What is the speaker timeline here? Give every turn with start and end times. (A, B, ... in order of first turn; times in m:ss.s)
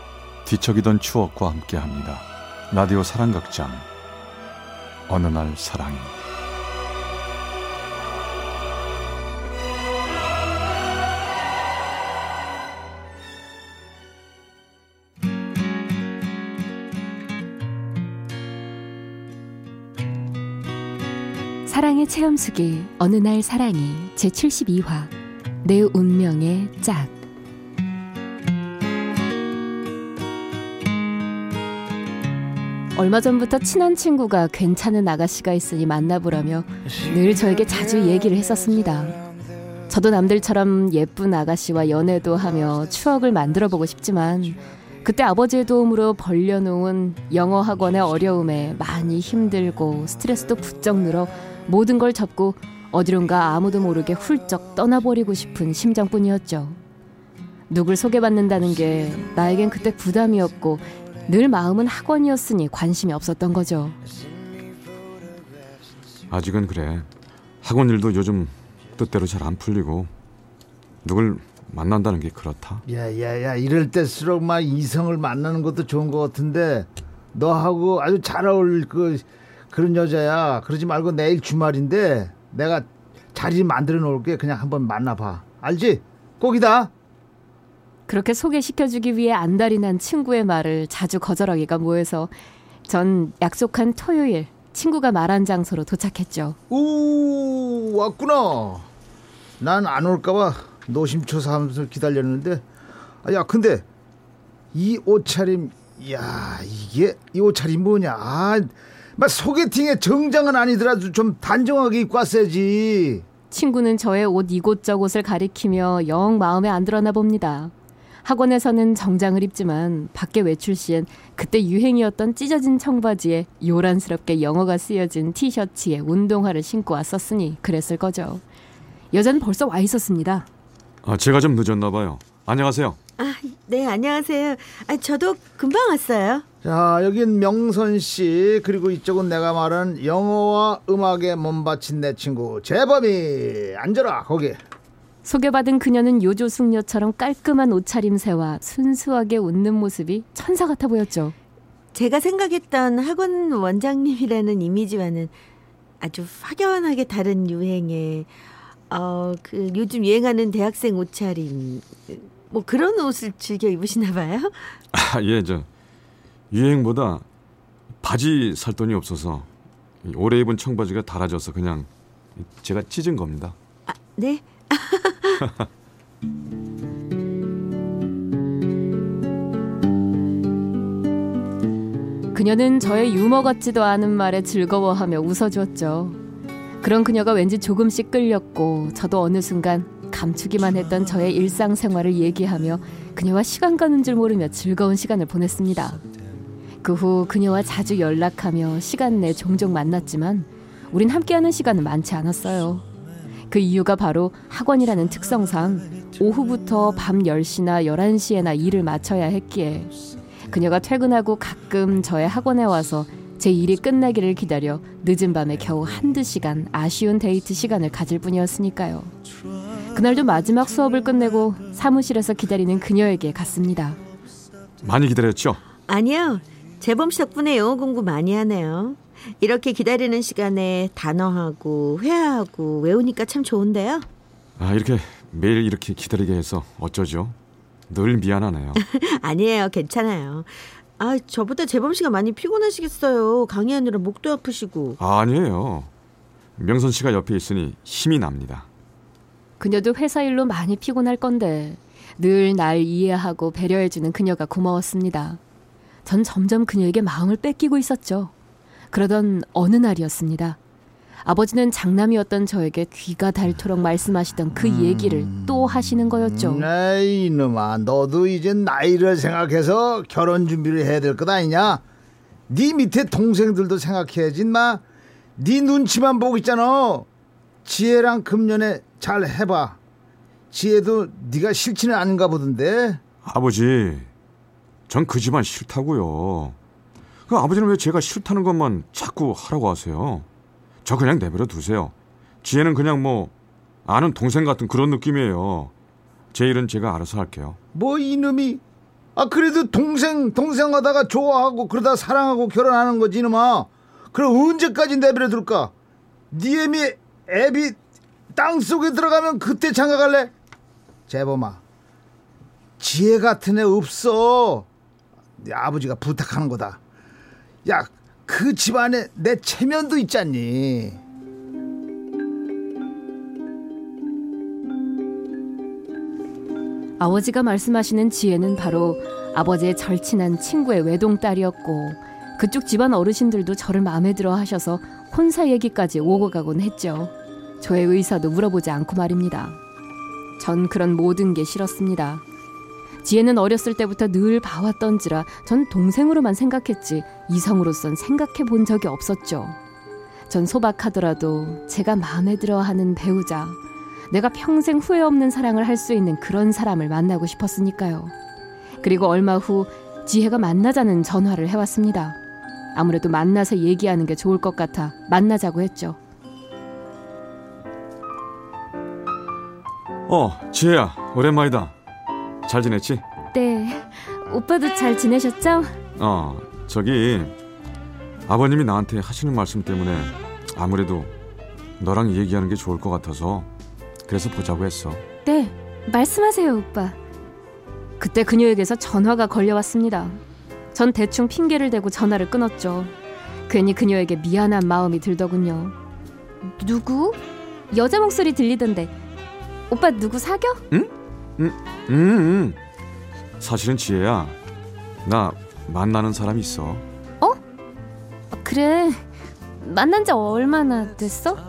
0:00.4-0:03.9 A
0:05.1-0:06.1 A
0:21.7-0:25.1 B
0:25.6-0:27.2 B
0:32.9-0:39.2 B
0:39.9-0:56.8 B
0:57.7-1:04.0 B
1:06.3-1:07.1 A
1:07.6-1:10.1 A
1:11.0-1:12.8 A
1:12.9-1:26.9 C
1:28.1-1:32.3 B
1:32.9-1:36.6 B
1:36.7-1:38.9 C
1:39.6-1:42.6 C
1:43.2-1:43.8 C
1:44.7-1:53.2 C
1:53.5-1:57.7 B
1:58.2-2:08.4 B
2:09.1-2:10.5 B
2:11.0-2:13.0 A
2:13.2-2:16.4 D
2:16.6-2:24.6 C
2:25.2-2:31.4 B
2:31.9-2:35.3 D
2:36.0-2:38.3 D
2:38.9-2:44.8 D
2:44.9-2:45.7 A
2:46.5-2:47.2 A
2:48.0-2:49.5 A
2:50.0-2:53.6 A
2:53.9-2:55.4 D
3:02.3-3:06.2 B
3:06.8-3:16.0 B
3:16.8-3:22.8 B
3:23.5-3:29.9 B
3:30.5-3:39.1 B
3:39.9-3:44.0 B
3:44.8-3:45.6 A
3:45.9-3:54.1 D
3:54.6-3:57.4 A
3:57.9-3:58.8 A
3:58.8-4:05.0 D
4:05.0-4:05.9 A
4:06.6-4:08.7 A
4:09.6-4:15.4 B
4:16.0-4:18.3 B
4:18.9-4:20.6 B
4:21.2-4:26.7 B
4:24.7-4:25.6 C
4:26.2-4:31.8 C
4:32.5-4:34.8 C
4:35.4-4:37.1 C
4:37.6-4:39.8 C
4:40.5-4:43.0 C
4:43.2-4:44.1 A
4:44.9-4:46.6 A
4:47.3-4:50.3 A
4:50.8-4:53.3 A
4:53.9-4:55.7 A
4:56.3-4:57.6 A
4:57.7-4:58.6 C
4:59.2-5:05.7 C
5:06.3-5:07.8 C
5:08.3-5:10.3 C
5:11.1-5:11.6 C
5:12.8-5:14.7 C
5:15.4-5:16.8 C
5:17.6-5:21.0 C
5:27.0-5:39.6 B
5:40.4-5:42.2 B
5:43.0-5:49.6 B
5:50.3-5:58.1 B
5:58.8-6:02.2 B
6:02.7-6:06.0 B
6:10.1-6:11.8 A
6:12.5-6:13.0 A
6:13.3-6:15.8 B
6:16.0-6:17.4 A
6:18.3-6:21.1 A
6:21.8-6:23.5 A
6:24.1-6:25.0 A
6:25.2-6:27.0 B
6:28.0-6:30.2 B
6:30.7-6:32.9 B
6:33.5-6:35.8 B
6:36.4-6:37.2 B
6:37.7-6:38.9 B
6:39.7-6:40.6 B
6:40.7-6:42.6 A
6:43.4-6:44.4 A
6:45.0-6:46.8 A
6:48.3-6:49.0 B
6:49.6-6:51.4 B